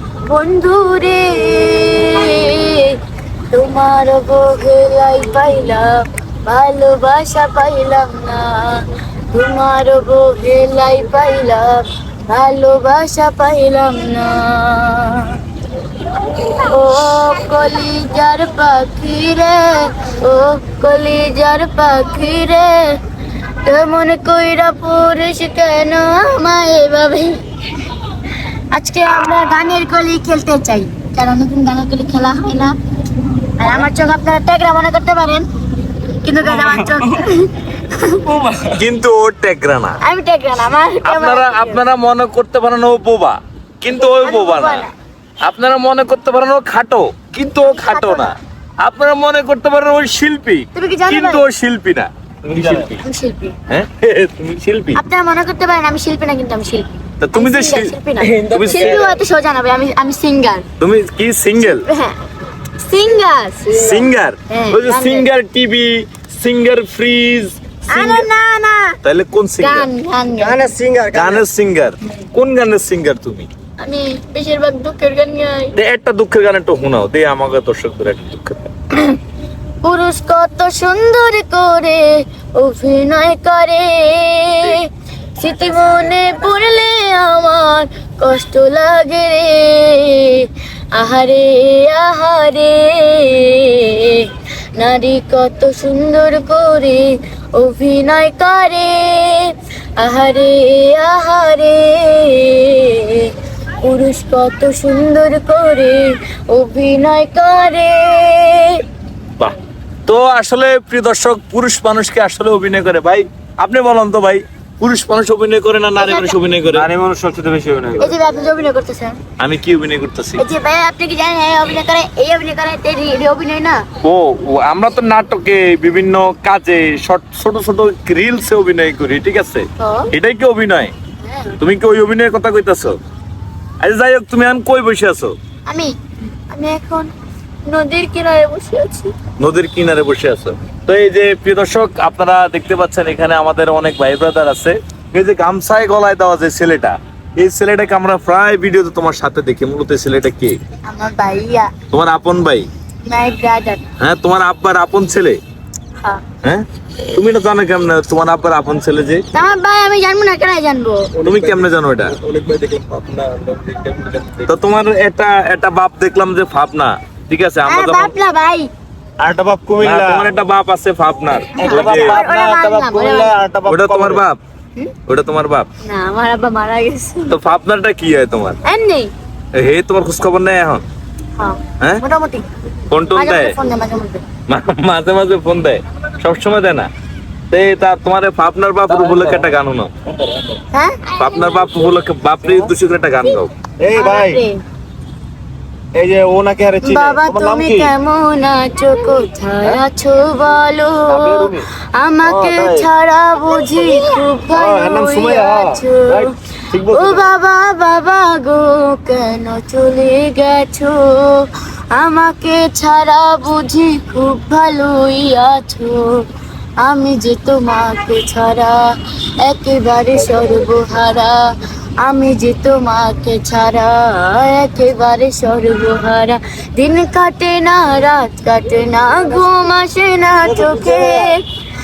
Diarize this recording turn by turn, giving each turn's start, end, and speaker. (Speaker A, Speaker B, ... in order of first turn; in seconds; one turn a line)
Speaker A: 0.3-3.0
Speaker A: 3.5-15.4
Speaker A: 16.2-23.0
Speaker A: 23.6-27.4
Speaker A: 28.7-32.8
Speaker A: 33.6-35.5
Speaker A: 36.2-38.2
Speaker B: 38.3-38.8
Speaker C: 38.8-40.0
Speaker A: 40.0-41.8
Speaker C: 41.0-44.9
Speaker A: 43.9-44.9
Speaker C: 45.5-53.0
Speaker A: 47.6-48.4
Speaker A: 50.8-51.5
Speaker B: 52.5-52.9
Speaker A: 53.0-53.6
Speaker C: 53.7-55.0
Speaker A: 55.0-60.6
Speaker C: 57.2-58.0
Speaker B: 58.2-59.1
Speaker C: 58.5-59.2
Speaker C: 60.8-61.9
Speaker A: 61.6-62.1
Speaker A: 62.8-65.3
Speaker C: 63.7-68.3
Speaker A: 67.9-69.0
Speaker C: 69.0-69.9
Speaker A: 69.6-70.7
Speaker B: 70.4-71.4
Speaker C: 71.1-73.5
Speaker A: 73.8-75.8
Speaker C: 75.7-78.7
Speaker A: 79.8-84.9
Speaker A: 85.4-108.8
Speaker C: 110.1-116.9
Speaker A: 116.0-116.3
Speaker B: 116.7-118.2
Speaker A: 118.0-119.2
Speaker C: 119.4-120.4
Speaker A: 120.4-123.8
Speaker C: 124.0-130.9
Speaker A: 129.8-130.1
Speaker A: 131.3-131.6
Speaker C: 131.6-133.0
Speaker C: 133.8-135.3
Speaker A: 135.7-135.9
Speaker A: 136.5-137.1
Speaker A: 137.7-139.1
Speaker C: 139.4-150.6
Speaker A: 150.9-151.7
Speaker C: 151.9-152.7
Speaker A: 153.1-153.8
Speaker C: 154.0-155.4
Speaker C: 156.4-159.2
Speaker A: 159.3-161.1
Speaker B: 161.2-164.5
Speaker C: 161.2-162.2
Speaker C: 164.5-168.1
Speaker A: 167.7-168.7
Speaker B: 169.2-170.3
Speaker C: 169.8-172.2
Speaker A: 171.6-173.3
Speaker B: 171.6-174.2
Speaker C: 173.7-174.4
Speaker C: 175.1-175.7
Speaker A: 175.8-177.3
Speaker C: 177.3-178.6
Speaker A: 178.7-179.1
Speaker C: 179.6-180.8
Speaker A: 181.4-182.5
Speaker C: 182.9-183.6
Speaker A: 183.2-184.2
Speaker C: 184.5-186.9
Speaker C: 187.5-189.9
Speaker B: 188.9-189.5
Speaker B: 190.2-190.6
Speaker A: 190.7-191.2
Speaker C: 191.2-193.5
Speaker B: 192.4-192.7
Speaker B: 193.8-194.4
Speaker A: 193.9-194.5
Speaker B: 195.9-197.9
Speaker A: 196.8-216.2
Speaker B: 201.1-201.7
Speaker B: 202.2-202.9
Speaker B: 204.5-207.3
Speaker A: 216.8-218.9
Speaker A: 219.4-221.4
Speaker A: 222.0-231.4
Speaker B: 230.5-231.3